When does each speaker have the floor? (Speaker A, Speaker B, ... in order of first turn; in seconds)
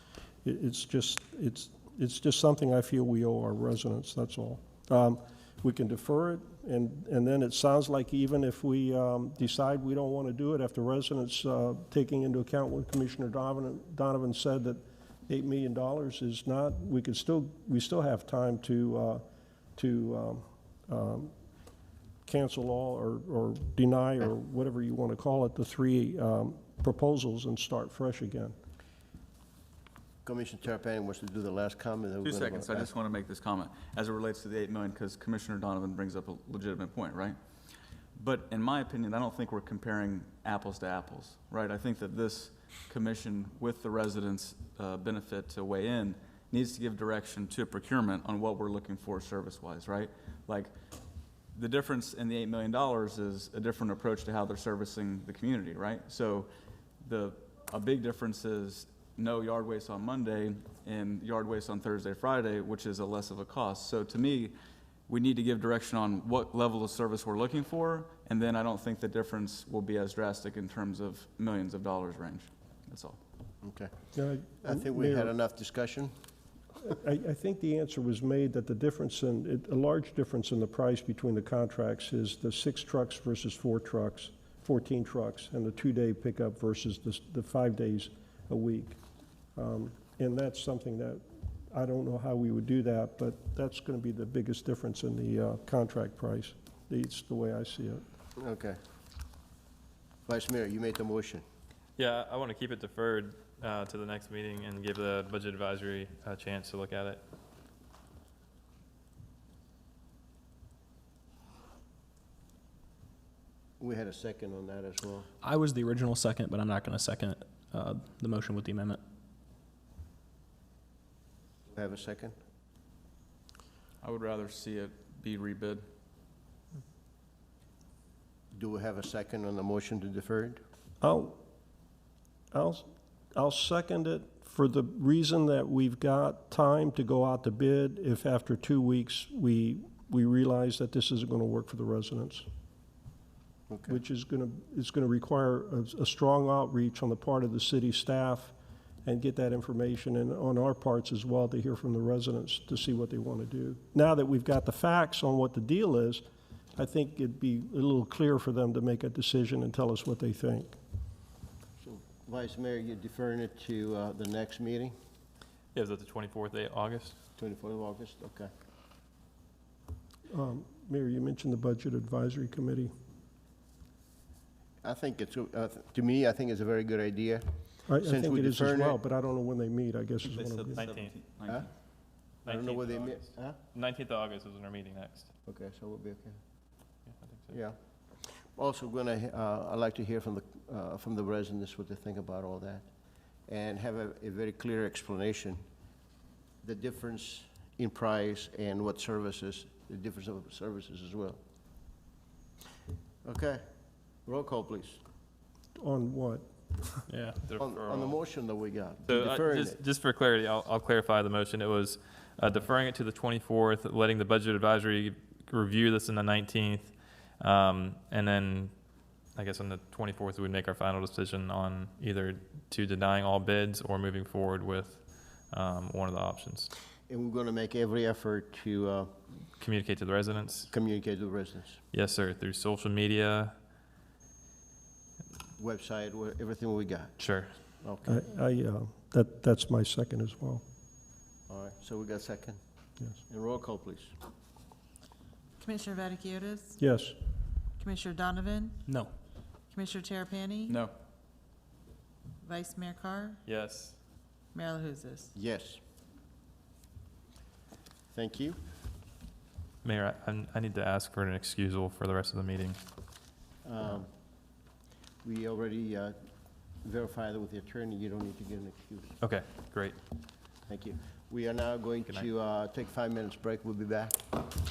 Speaker A: 0.4-19.2, 19.8-21.3, 22.3-28.6, 74.1-75.3, 76.8-89.0, 89.6-98.0, 131.0-131.4, 132.5-142.5, 143.9-156.2, 156.8-160.7, 170.3-172.9, 177.9-180.8, 205.8-207.0, 238.1-240.6, 246.8-247.2
Speaker B: 30.2-32.9, 73.6-74.1, 74.6-76.1, 98.4-98.8, 100.3-101.4, 113.8-115.3, 121.7-122.4, 128.5-130.6, 143.7-144.0, 161.8-164.9, 167.4-168.5, 174.8-177.4, 178.0-179.0, 182.5-183.6, 185.5-186.4, 187.5-192.9, 193.5-195.6, 196.6-201.4, 203.2-203.6, 204.2-205.0, 207.6-209.8, 227.1-229.1, 230.7-231.8, 235.6-237.2, 237.8-238.2, 241.5-242.6, 243.3-244.1, 255.3-255.8, 258.1-258.6, 263.6-264.1, 265.2-266.2, 266.8-269.2, 270.7-274.4
Speaker C: 32.2-37.4, 38.2-50.7, 51.5-56.5, 57.0-64.5, 65.1-73.2, 124.0-125.8, 180.4-181.7
Speaker D: 102.0-107.2, 165.7-167.2, 180.7-181.2, 182.5-185.3, 187.2-187.6, 207.4-208.2, 209.1-218.7, 219.3-226.7, 229.6-230.7, 231.9-233.5, 237.2-237.5, 253.4-254.0, 259.8-262.8, 269.2-270.0
Speaker E: 115.4-119.0, 207.1-207.4, 248.9-249.1
Speaker F: 245.6-246.8, 247.8-248.9, 249.7-250.8, 252.4-253.4, 254.5-255.3